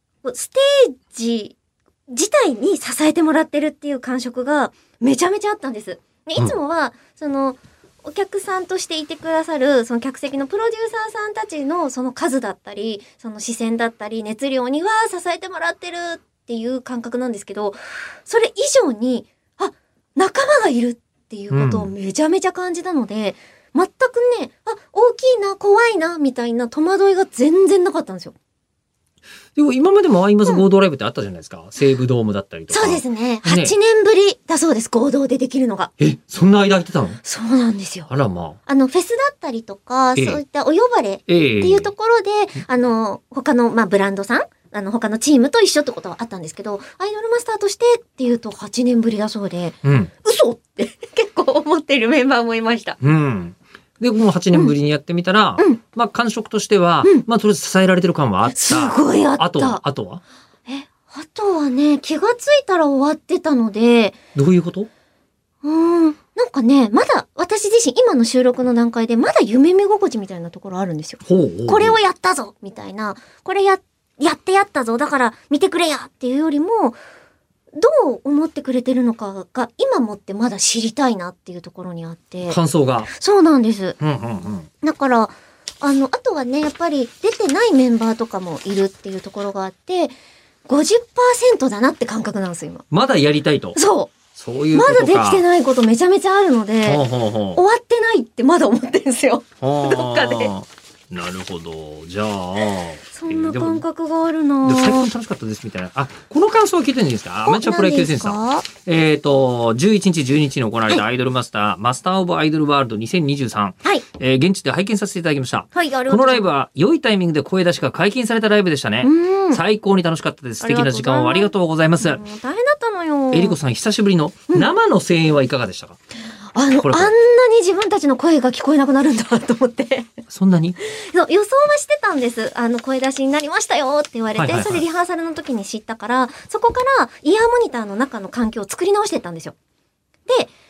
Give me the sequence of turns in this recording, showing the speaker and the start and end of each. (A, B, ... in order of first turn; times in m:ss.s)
0:00.2-0:01.6 A
0:02.1-0:28.3 A
0:21.5-0:21.9 B
0:29.5-0:33.8 B
0:32.7-0:35.9 A
0:36.0-0:37.2 B
0:37.2-0:38.1 A
0:38.1-0:38.6 B
0:38.7-0:53.0 A
0:40.2-0:40.4 B
0:41.3-0:41.9 B
0:49.8-0:50.1 B
0:53.0-1:00.2 B
0:58.5-0:59.8 A
1:00.7-1:04.2 A
1:04.3-1:04.9 B
1:05.6-1:17.0 A
1:11.2-1:12.0 B
1:17.7-1:22.6 A
1:22.5-1:23.1 B
1:23.1-1:24.0 A
1:24.0-1:24.7 B
1:24.8-1:30.1 A
1:30.6-1:32.8 A
1:32.9-1:33.8 B
1:33.8-1:34.1 A
1:34.4-1:35.4 B
1:34.7-1:37.0 A
1:36.8-1:37.6 B
1:37.5-1:40.5 A
1:39.6-1:43.8 B
1:43.1-1:45.1 A
1:44.6-2:02.2 B
1:47.4-1:48.7 A
1:55.7-1:56.5 A
1:59.0-1:59.6 A
2:00.6-2:03.6 A
2:03.3-2:06.0 B
2:06.5-2:10.1 A
2:06.7-2:07.1 B
2:10.3-2:10.8 B
2:10.8-2:19.5 A
2:14.3-2:14.8 B